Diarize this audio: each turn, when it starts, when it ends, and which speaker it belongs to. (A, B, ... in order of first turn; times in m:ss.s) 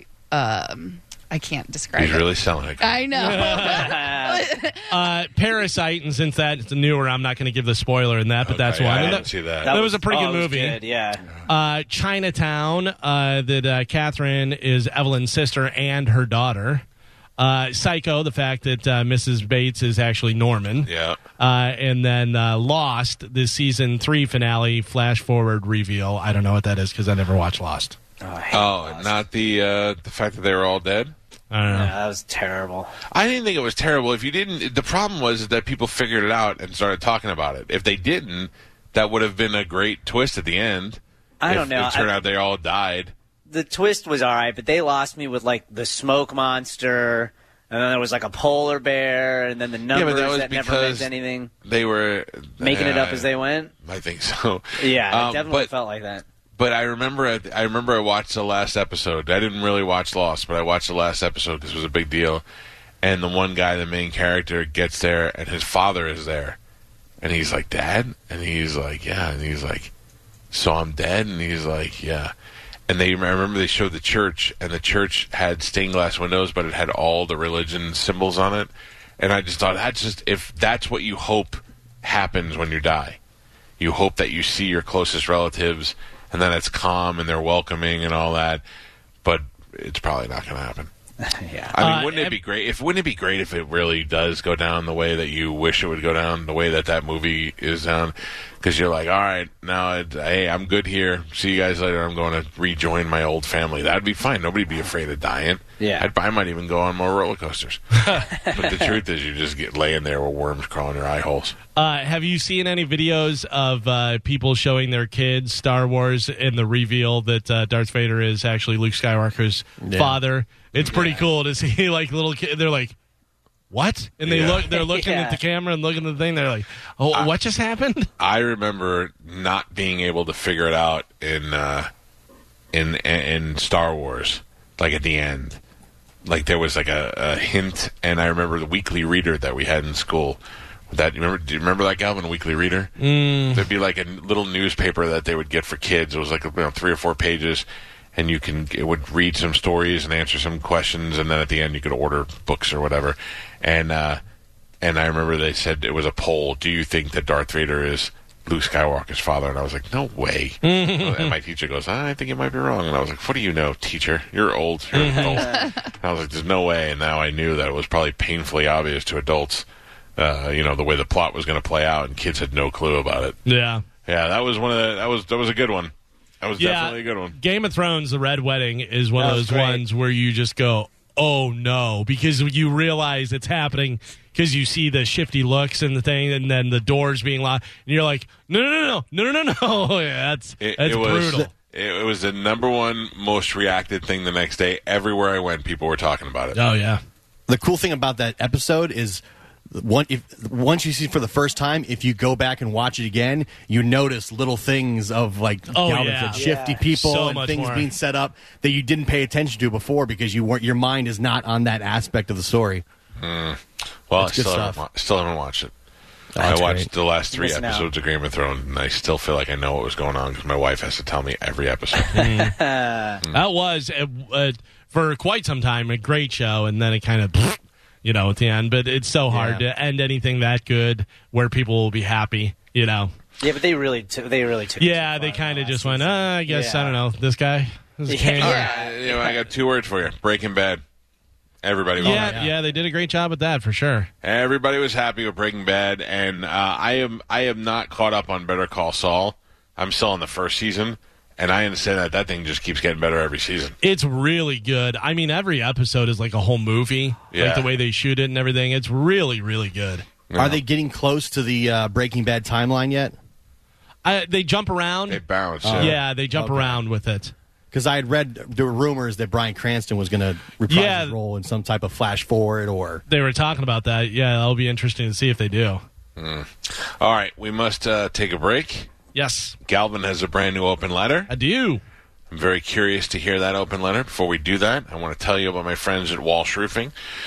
0:00.3-0:04.9 A
0:02.0-0:03.1 B
0:03.1-0:04.0 C
0:03.6-0:04.4 D
0:04.9-0:10.8 C
0:08.4-0:09.7 B
0:09.0-0:11.2 D
0:11.5-0:16.8 C
0:17.4-0:28.0 C
0:20.9-0:21.2 B
0:28.2-0:29.2 D
0:28.5-0:31.2 B
0:31.5-0:31.9 C
0:31.7-0:32.9 D
0:33.1-0:43.1 B
0:41.4-0:42.1 D
0:43.5-0:51.5 D
0:49.9-0:51.1 B
0:51.6-0:55.7 B
0:52.6-0:53.7 D
0:54.8-0:56.2 D
0:56.6-1:02.4 B
1:03.0-1:06.6 B
1:07.2-1:09.9 B
1:10.5-1:12.3 B
1:12.9-1:23.2 B
1:23.8-1:28.6 B
1:29.2-1:30.9 B
1:31.2-1:31.7 D
1:31.7-1:51.6 B
1:31.8-1:32.4 C
1:45.8-1:46.1 D
1:48.3-1:48.9 D
1:51.8-2:02.9 C
1:59.8-2:00.2 E
2:00.9-2:01.2 D
2:03.7-2:08.1 C
2:04.2-2:04.7 B
2:04.7-2:05.4 D
2:08.2-2:11.9 B
2:12.7-2:15.6 B
2:16.2-2:20.4 B
2:20.9-2:22.9 B
2:23.0-2:23.7 C
2:23.5-2:34.2 B
2:34.8-2:49.6 B
2:40.6-2:41.4 C
2:44.9-2:45.4 C
2:50.2-2:53.4 B
2:53.5-2:53.8 C
2:54.0-2:57.4 B
2:56.6-3:11.5 C
2:59.2-2:59.8 D
3:10.6-3:16.6 B
3:16.5-3:17.0 C
3:17.5-3:32.8 E
3:25.7-3:27.9 C
3:26.4-3:26.8 D
3:33.2-3:35.7 B
3:34.2-3:34.8 E
3:36.4-3:36.9 E
3:36.4-3:42.2 B
3:37.3-3:37.9 D
3:42.0-3:43.2 D
3:42.1-3:42.6 C
3:43.3-3:53.1 C
3:53.4-3:57.0 D
3:54.8-3:58.6 C
3:58.1-3:59.4 D
3:58.4-4:00.8 B
4:01.6-4:02.4 B
4:02.0-4:04.1 C
4:02.0-4:02.5 E
4:04.2-4:13.8 B
4:13.8-4:20.1 C
4:17.3-4:17.7 B
4:20.3-4:20.6 B
4:20.4-4:23.2 E
4:24.0-4:25.2 C
4:25.1-4:26.0 B
4:25.6-4:26.8 E
4:25.8-4:27.3 C
4:27.7-4:33.0 E
4:30.7-4:31.2 C
4:33.1-4:35.8 C
4:36.2-4:38.9 B
4:39.1-4:39.6 C
4:39.6-4:41.3 B
4:41.3-4:41.8 C
4:42.3-4:46.9 B